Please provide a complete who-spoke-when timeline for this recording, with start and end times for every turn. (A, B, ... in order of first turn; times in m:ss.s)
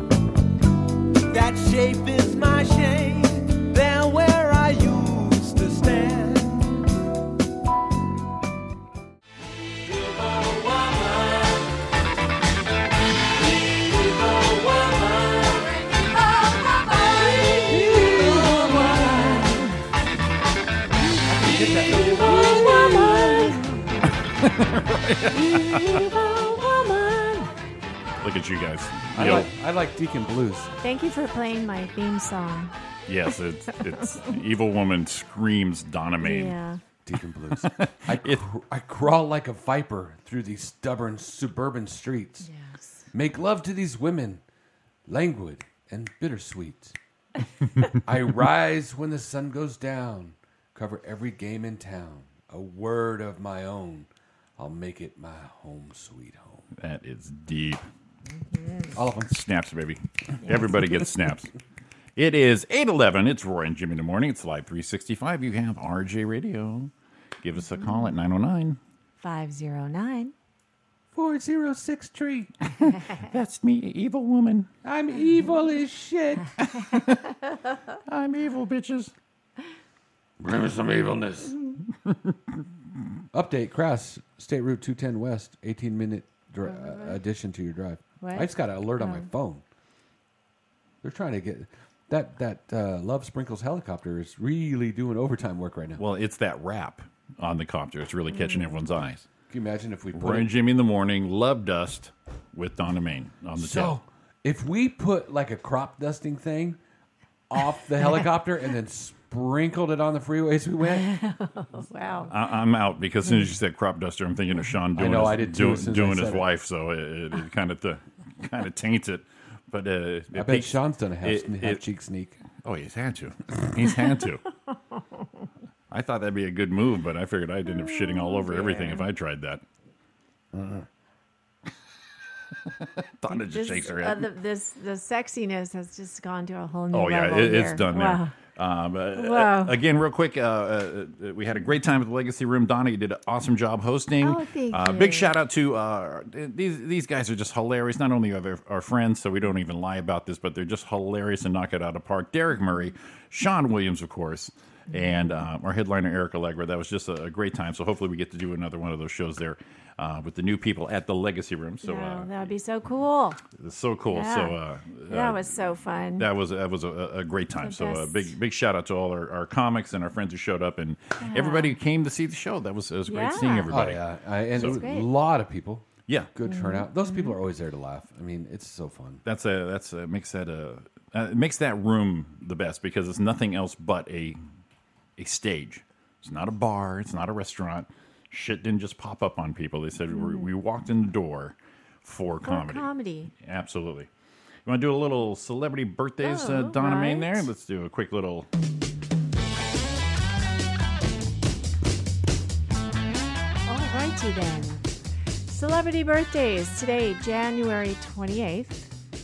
0:01.3-0:06.9 A
0:09.8-0:11.7 A
0:13.4-0:19.2 A
0:17.7-0:19.6 B
0:18.5-0:19.6 C
0:21.4-0:23.6 B
0:21.4-0:23.3 A
0:22.2-0:23.8 C
0:24.4-0:26.0 D
0:25.3-0:27.5 C
0:28.2-0:29.5 D
0:29.1-0:30.7 B
0:30.8-0:32.7 C
0:33.1-0:36.5 D
0:36.2-0:36.8 C
0:37.0-0:42.5 B
0:37.6-0:38.4 D
0:42.4-0:43.0 C
0:43.1-0:44.4 B
0:45.1-0:47.0 B
0:48.0-0:56.7 B
0:56.8-0:57.8 D
0:58.5-0:58.9 C
0:58.9-0:59.3 B
0:59.3-1:01.5 D
1:02.2-1:06.9 D
1:07.4-1:08.8 D
1:07.7-1:08.1 C
1:09.2-1:10.3 C
1:11.1-1:12.5 B
1:12.8-1:14.7 D
1:14.8-1:16.5 B
1:16.6-1:17.3 D
1:18.1-1:19.1 D
1:20.4-1:21.5 B
1:22.0-1:22.3 D
1:23.3-1:29.6 B
1:26.6-1:27.2 C
1:28.2-1:29.3 C
1:31.0-1:36.0 B
1:36.0-1:39.3 D
1:38.3-1:38.8 C
1:39.5-1:40.5 B
1:40.1-1:44.0 D
1:43.6-1:46.8 B
1:47.5-1:51.1 B
1:48.0-1:48.3 C
1:50.8-1:52.3 C
1:52.3-2:01.8 D
1:53.2-1:53.5 C
1:54.9-1:56.5 B
2:00.3-2:02.4 B
2:02.6-2:04.4 D
2:05.9-2:09.6 D
2:07.7-2:09.0 C
2:10.5-2:10.9 B
2:12.7-2:14.2 D
2:13.3-2:18.3 C
2:16.9-2:42.4 D
2:19.2-2:19.8 C
2:24.2-2:25.3 C
2:34.9-2:35.4 C
2:41.8-2:43.4 C
2:43.5-2:45.6 D
2:44.1-2:44.6 C
2:45.1-2:46.3 C
2:46.2-2:54.0 D
2:47.6-2:48.3 C
2:51.2-2:51.7 C
2:53.1-2:53.7 C
2:53.7-2:59.2 B
2:54.5-2:54.8 D
2:54.6-2:55.1 C
2:56.4-2:57.4 C
2:59.2-3:04.4 D
3:05.2-3:12.9 D
3:10.1-3:10.5 C
3:12.4-3:13.3 C
3:13.4-3:14.1 D
3:14.6-3:18.5 D
3:16.2-3:17.5 C
3:23.7-3:24.8 C
3:25.5-3:28.9 C